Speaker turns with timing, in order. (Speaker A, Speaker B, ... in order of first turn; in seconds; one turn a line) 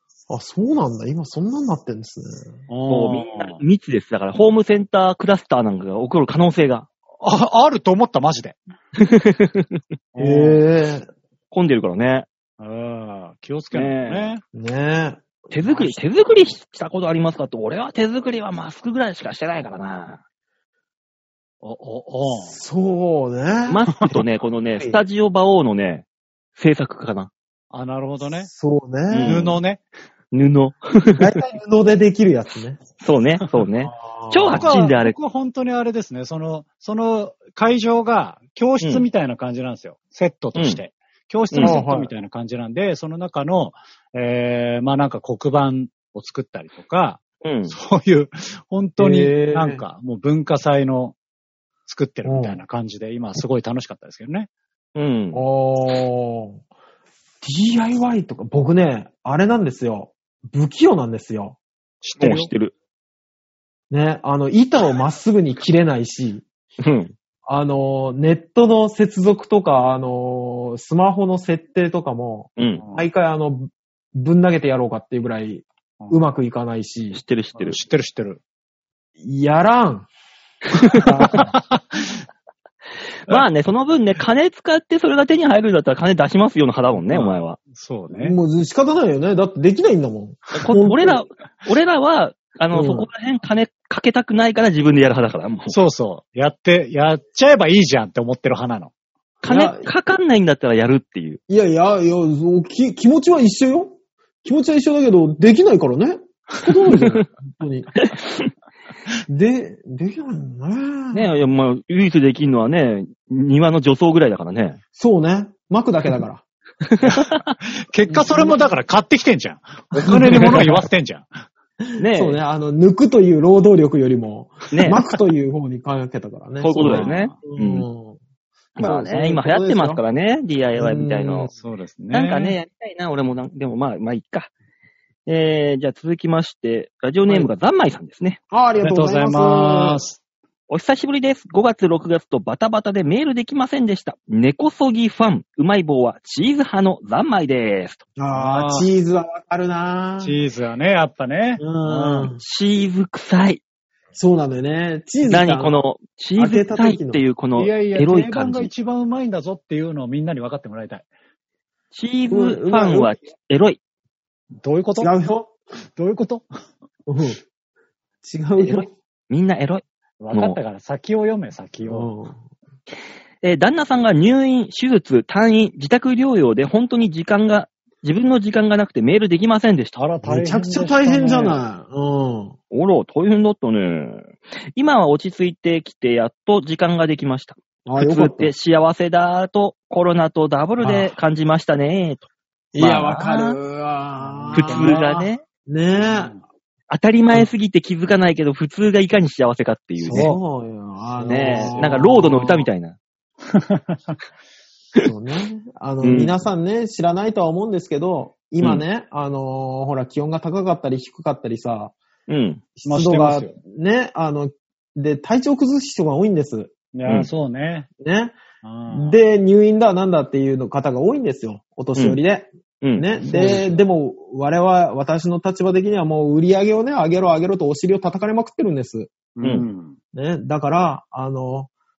Speaker A: 0.3-2.6
Speaker B: 2.7-3.6
Speaker C: 2.9-6.9
Speaker B: 7.2-8.6
Speaker C: 8.9-9.8
Speaker B: 10.1-10.6
Speaker A: 10.2-11.1
Speaker C: 11.5-12.3
Speaker B: 12.6-14.4
Speaker C: 13.7-14.3
Speaker A: 14.5-16.0
Speaker C: 15.5-20.2
Speaker B: 21.6-22.6
Speaker A: 22.4-24.2
Speaker C: 23.7-27.3
Speaker A: 24.7-25.0
Speaker B: 27.7-28.5
Speaker A: 28.4-29.6
Speaker C: 29.1-29.5
Speaker B: 29.2-29.8
Speaker C: 30.3-31.3
Speaker A: 31.2-32.8
Speaker C: 33.0-35.1
Speaker A: 33.8-34.7
Speaker B: 34.5-51.1
Speaker C: 40.5-40.8
Speaker C: 41.5-41.8
Speaker A: 41.6-42.1
Speaker C: 47.4-47.7
Speaker A: 49.0-49.8
Speaker B: 51.9-54.5
Speaker A: 52.2-52.6
Speaker C: 54.9-55.4
Speaker A: 55.3-56.6
Speaker A: 57.4-61.6
Speaker B: 62.0-62.5
Speaker C: 62.2-62.7
Speaker A: 63.9-66.4
Speaker C: 66.8-67.1
Speaker A: 67.5-77.2
Speaker C: 72.6-72.8
Speaker B: 72.8-73.1
Speaker B: 76.0-76.2
Speaker C: 77.1-77.8
Speaker B: 77.5-78.4
Speaker A: 79.2-80.1
Speaker C: 80.8-81.0
Speaker A: 80.9-81.5
Speaker B: 81.0-82.2
Speaker C: 83.2-87.6
Speaker B: 87.1-88.3
Speaker A: 88.1-91.2
Speaker C: 90.5-95.8
Speaker A: 92.7-93.1
Speaker B: 95.7-98.9
Speaker C: 99.4-101.4
Speaker A: 99.4-99.9
Speaker A: 101.5-107.9
Speaker C: 106.9-107.2
Speaker C: 107.9-108.5
Speaker A: 109.3-111.3
Speaker C: 111.1-114.8
Speaker A: 115.0-116.4
Speaker C: 116.8-117.5
Speaker B: 117.0-121.3
Speaker A: 118.1-118.7
Speaker A: 120.0-120.8
Speaker C: 120.3-120.6
Speaker C: 122.0-122.4
Speaker A: 122.0-128.2
Speaker C: 124.7-125.0
Speaker C: 126.6-127.9
Speaker B: 126.8-127.3
Speaker C: 128.8-131.5
Speaker A: 128.8-130.0
Speaker A: 130.8-131.5
Speaker B: 131.5-132.6
Speaker C: 132.1-134.5
Speaker C: 135.2-138.4
Speaker A: 138.5-140.0
Speaker B: 138.8-140.2
Speaker C: 140.7-148.0
Speaker A: 148.2-150.4
Speaker B: 148.3-148.9
Speaker B: 150.2-152.3
Speaker A: 151.6-152.4
Speaker C: 152.4-153.6
Speaker A: 154.1-155.8
Speaker C: 155.2-158.7
Speaker A: 156.4-157.2
Speaker B: 157.6-161.1
Speaker C: 161.9-163.8
Speaker A: 162.3-163.1
Speaker B: 164.6-165.1
Speaker A: 165.0-165.5
Speaker B: 165.9-166.4
Speaker A: 167.1-167.4
Speaker A: 168.2-168.9
Speaker C: 168.6-170.6
Speaker B: 170.2-172.1
Speaker A: 171.8-172.4
Speaker C: 173.4-180.0
Speaker B: 179.9-181.6
Speaker A: 180.2-182.5
Speaker C: 182.7-193.6
Speaker A: 187.8-188.5
Speaker A: 190.8-191.1
Speaker A: 192.7-195.0
Speaker B: 194.2-195.3
Speaker C: 194.5-195.4
Speaker A: 195.7-196.3
Speaker B: 195.9-196.4
Speaker C: 196.9-200.3
Speaker B: 200.0-200.4
Speaker A: 200.1-202.7
Speaker C: 201.2-203.0
Speaker B: 201.5-201.9
Speaker B: 203.5-204.1
Speaker A: 205.0-211.9
Speaker C: 206.0-206.4
Speaker C: 212.3-212.6
Speaker A: 212.8-216.7
Speaker B: 212.8-213.6
Speaker B: 216.9-217.9
Speaker A: 218.0-218.3
Speaker B: 218.6-219.2
Speaker A: 218.9-229.1
Speaker C: 221.9-222.2
Speaker C: 222.8-223.6
Speaker B: 223.3-223.7
Speaker B: 229.3-229.9
Speaker A: 230.1-231.7